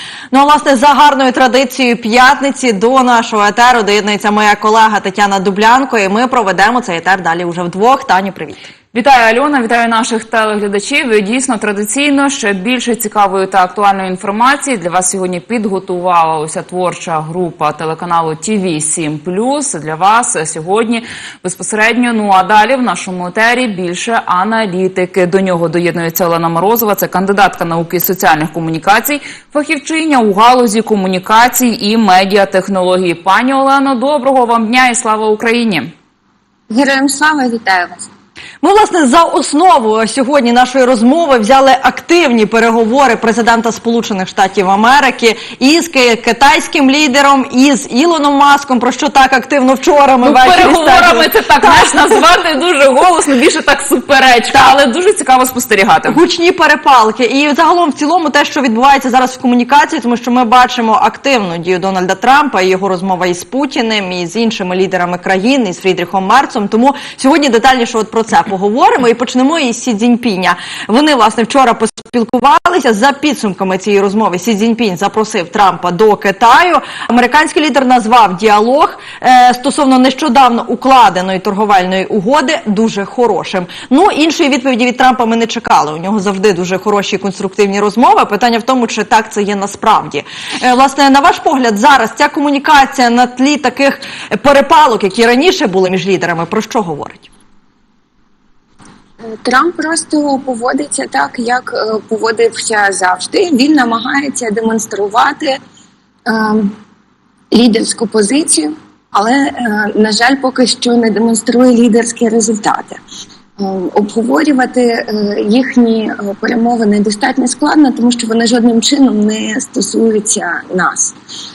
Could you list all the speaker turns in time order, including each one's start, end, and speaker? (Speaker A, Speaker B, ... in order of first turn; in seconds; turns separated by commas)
Speaker A: 0.3-8.7, Speaker B: 8.9-35.9, Speaker C: 36.7-38.1, Speaker A: 38.6-52.1, Speaker B: 50.2-56.2, Speaker A: 56.1-97.3, Speaker C: 99.2-105.6, Speaker C: 106.3-106.7, Speaker C: 107.5-113.0, Speaker C: 113.6-121.2